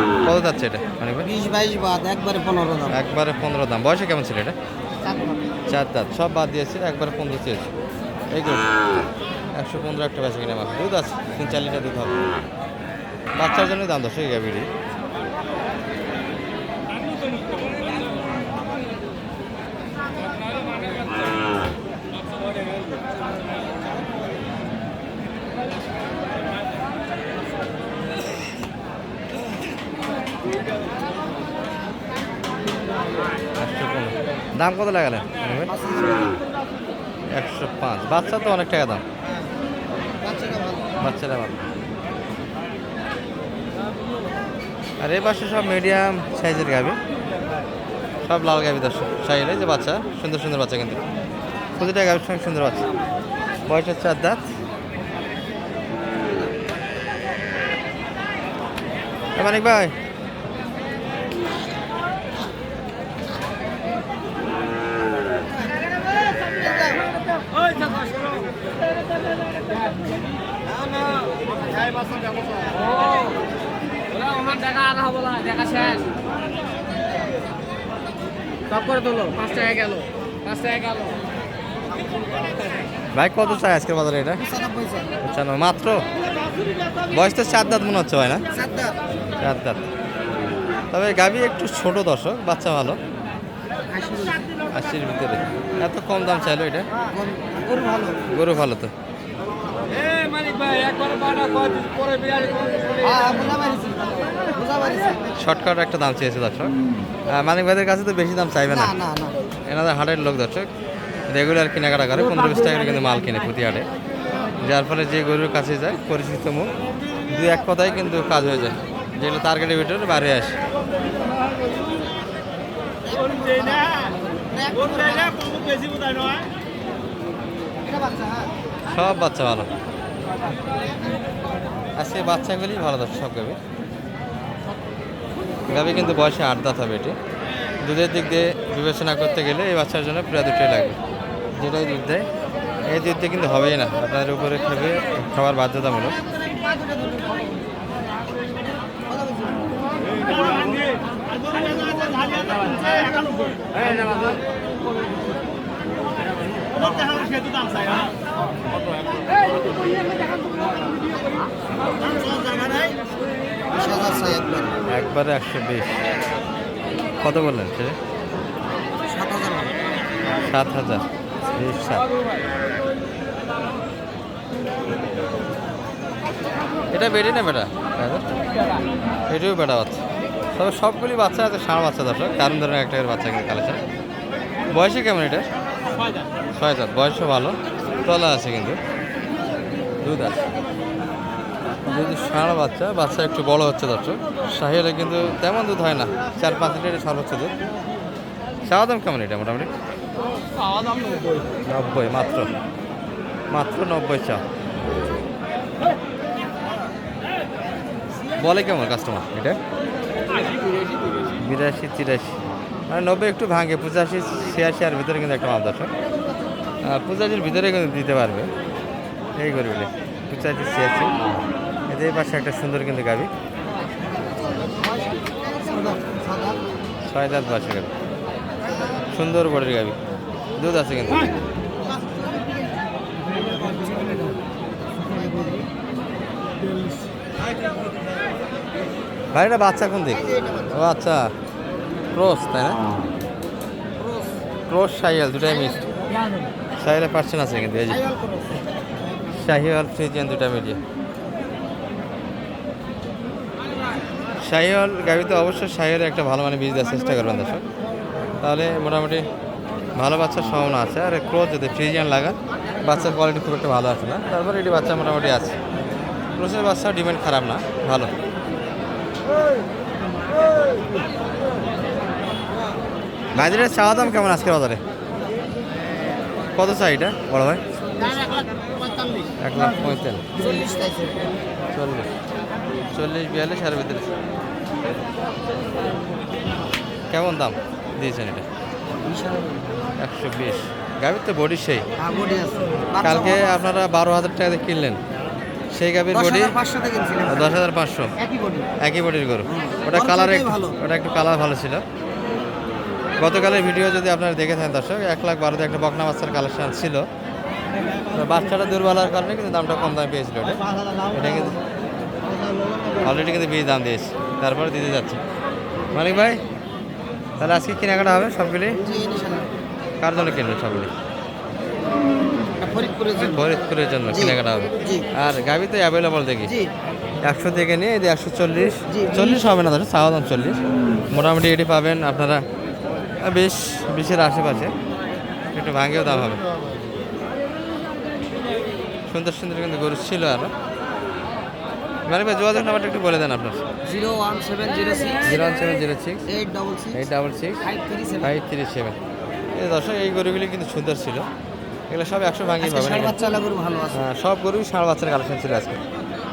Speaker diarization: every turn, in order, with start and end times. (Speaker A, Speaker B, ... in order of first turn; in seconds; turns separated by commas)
Speaker A: 0.2-1.3, Speaker B: 1.2-3.0, Speaker A: 2.9-4.5, Speaker B: 5.0-5.3, Speaker A: 5.7-7.7, Speaker A: 8.3-8.7, Speaker A: 9.5-12.2, Speaker A: 13.3-14.7, Speaker A: 33.6-35.8, Speaker B: 35.7-36.3, Speaker A: 37.3-39.0, Speaker B: 40.2-40.9, Speaker A: 41.0-41.6, Speaker A: 45.0-47.0, Speaker A: 48.2-51.0, Speaker A: 51.8-52.9, Speaker A: 53.7-54.4, Speaker A: 59.4-59.9, Speaker B: 66.5-67.0, Speaker C: 75.2-75.4, Speaker B: 78.8-79.9, Speaker C: 80.7-80.9, Speaker A: 83.1-84.4, Speaker B: 84.4-85.1, Speaker A: 85.2-86.0, Speaker A: 87.1-88.4, Speaker B: 88.5-89.0, Speaker A: 89.4-89.8, Speaker A: 90.9-93.0, Speaker B: 93.9-94.5, Speaker A: 94.7-96.9, Speaker B: 97.1-98.2, Speaker A: 98.3-98.9, Speaker C: 100.3-102.1, Speaker B: 102.9-105.3, Speaker A: 105.4-106.7, Speaker A: 107.3-108.9, Speaker B: 108.7-109.3, Speaker A: 109.7-110.7, Speaker A: 111.3-113.9, Speaker A: 114.6-116.7, Speaker A: 117.3-120.6, Speaker B: 123.1-125.8, Speaker A: 128.9-129.7, Speaker A: 131.9-133.6, Speaker A: 135.7-137.2, Speaker A: 137.8-141.0, Speaker A: 141.5-142.3, Speaker A: 142.8-146.2, Speaker B: 146.5-147.5, Speaker B: 149.1-149.6, Speaker B: 151.5-154.2, Speaker B: 163.7-164.8, Speaker A: 164.9-166.0, Speaker A: 167.2-167.9, Speaker B: 169.1-169.8, Speaker A: 170.4-172.1, Speaker A: 176.9-178.2, Speaker A: 179.3-180.0, Speaker A: 180.6-183.8, Speaker A: 184.7-185.4, Speaker A: 186.5-188.8, Speaker A: 190.0-190.5, Speaker A: 191.8-197.5, Speaker A: 198.6-199.7, Speaker A: 201.7-202.5, Speaker A: 203.5-204.4, Speaker A: 208.4-209.6, Speaker A: 211.3-212.3, Speaker A: 212.9-215.9, Speaker A: 216.8-218.5, Speaker A: 219.4-221.1, Speaker A: 221.9-223.3, Speaker B: 224.6-226.6, Speaker A: 227.1-227.9, Speaker A: 229.1-230.0, Speaker A: 230.6-231.3, Speaker B: 233.3-234.3, Speaker B: 235.0-235.7, Speaker A: 239.3-241.3, Speaker A: 242.1-242.8, Speaker A: 244.7-245.8, Speaker A: 246.8-248.1, Speaker A: 249.3-250.8, Speaker A: 254.4-257.6, Speaker A: 258.4-259.3, Speaker A: 259.9-265.6, Speaker A: 266.3-268.1, Speaker A: 273.3-274.8, Speaker A: 276.5-277.6, Speaker A: 279.4-280.2, Speaker B: 280.3-281.3, Speaker A: 281.7-282.1, Speaker A: 282.9-284.1, Speaker A: 287.1-288.4, Speaker B: 289.0-289.8, Speaker A: 290.0-291.9, Speaker B: 292.0-293.4, Speaker A: 293.0-295.0, Speaker A: 295.7-296.5, Speaker B: 296.1-297.6, Speaker A: 297.3-298.1, Speaker B: 298.2-298.7, Speaker A: 298.8-301.8, Speaker B: 299.5-300.8, Speaker A: 303.2-307.1, Speaker A: 308.1-310.6, Speaker A: 311.1-311.6, Speaker A: 313.0-315.2, Speaker A: 315.9-316.4, Speaker A: 317.4-318.8, Speaker B: 318.8-319.5, Speaker A: 320.0-320.9, Speaker B: 322.6-323.4, Speaker A: 323.3-326.6, Speaker B: 324.1-325.1, Speaker A: 327.2-330.6, Speaker B: 328.9-329.4, Speaker A: 331.1-332.4, Speaker A: 333.2-334.7, Speaker A: 335.5-336.4, Speaker A: 339.1-340.5, Speaker A: 342.1-343.6, Speaker B: 343.8-345.3, Speaker A: 345.2-346.2, Speaker B: 346.3-347.0, Speaker A: 346.9-347.6, Speaker B: 347.6-348.3, Speaker A: 348.2-349.0, Speaker A: 349.5-351.2, Speaker A: 351.9-353.3, Speaker B: 352.6-354.0, Speaker A: 353.9-355.8